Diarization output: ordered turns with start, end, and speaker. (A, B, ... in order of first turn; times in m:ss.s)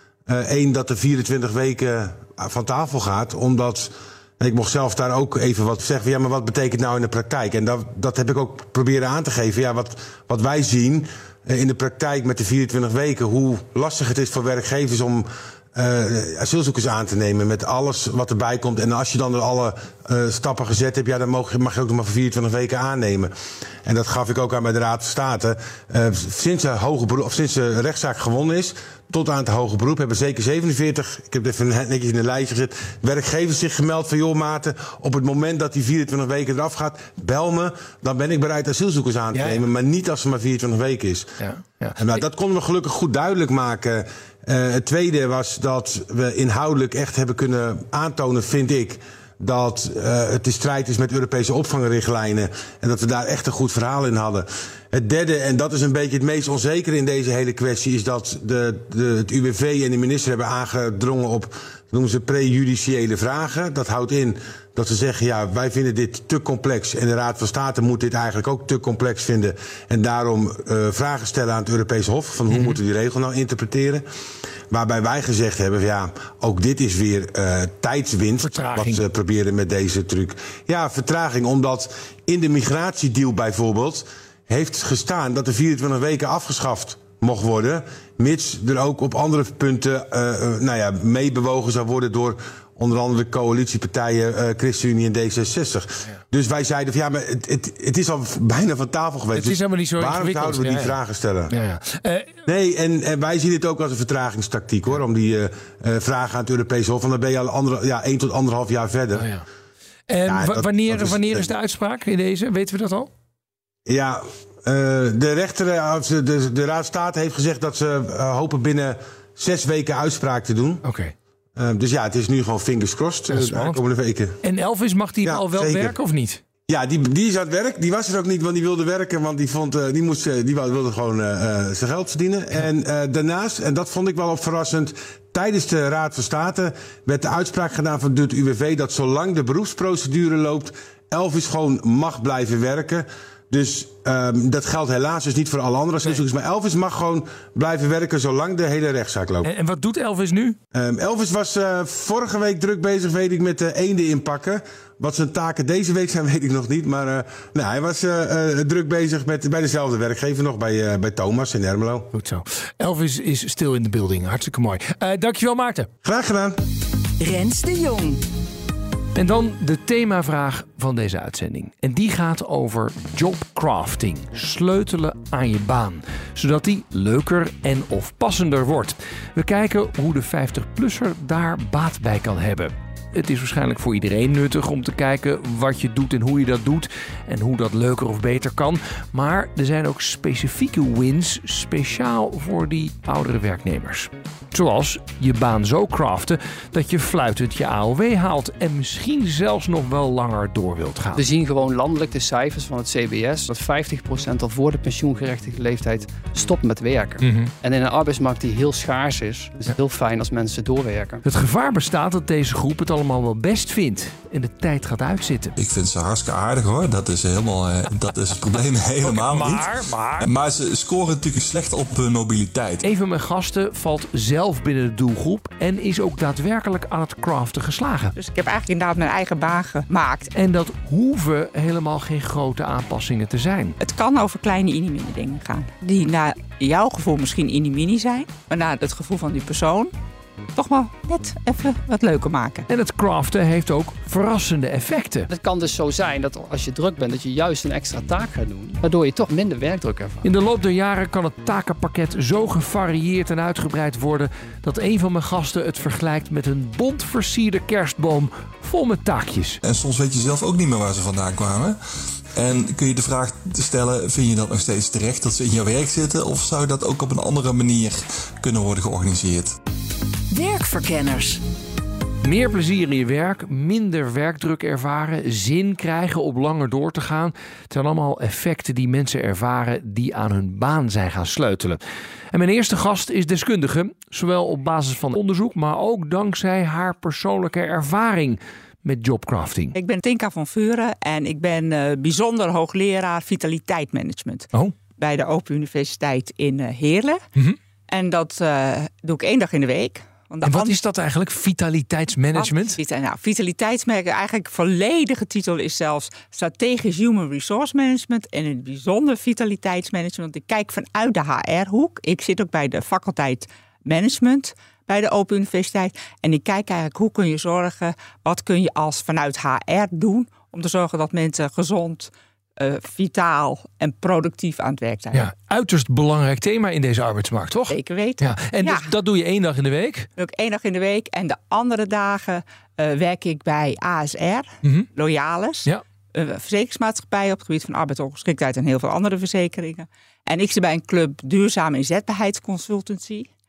0:00.3-0:23.3 A
0:23.8-0:41.4 A
0:39.3-0:39.6 B
0:41.4-0:42.0 B
0:42.0-1:14.0 A
1:12.5-1:12.8 B
1:14.7-1:41.5 A
1:18.4-1:19.1 B
1:39.3-1:42.4 B
1:42.5-1:49.3 A
1:49.2-1:49.5 B
1:50.1-1:53.1 B
1:50.2-1:51.5 A
1:53.9-2:00.8 A
2:00.8-2:01.1 B
2:01.6-2:04.4 A
2:03.3-2:03.8 B
2:04.4-2:06.4 B
2:05.2-2:06.0 A
2:06.7-2:29.5 A
2:29.4-2:30.6 B
2:30.7-2:42.1 A
2:42.1-2:45.9 B
2:46.0-2:46.6 A
2:47.2-2:48.2 C
2:49.2-3:21.2 B
3:21.2-3:31.2 D
3:27.2-3:27.5 B
3:31.2-3:35.6 B
3:35.6-3:42.8 E
3:39.0-3:40.3 B
3:42.8-3:48.1 B
3:48.2-3:50.3 F
3:50.3-3:53.8 B
3:53.8-3:59.9 F
4:00.6-4:02.7 F
4:02.7-4:05.3 B
4:05.3-4:10.3 D
4:10.2-4:19.6 B
4:19.6-4:21.8 E
4:22.4-4:29.6 E
4:30.3-4:31.4 C
4:32.2-4:41.8 B
4:42.3-4:49.8 B
4:49.7-4:57.2 F
4:57.9-5:00.8 F
5:00.4-5:02.8 B
5:02.3-5:25.3 F
5:25.1-5:30.1 B
5:27.7-5:28.9 F
5:30.2-5:43.3 F
5:34.6-5:34.9 B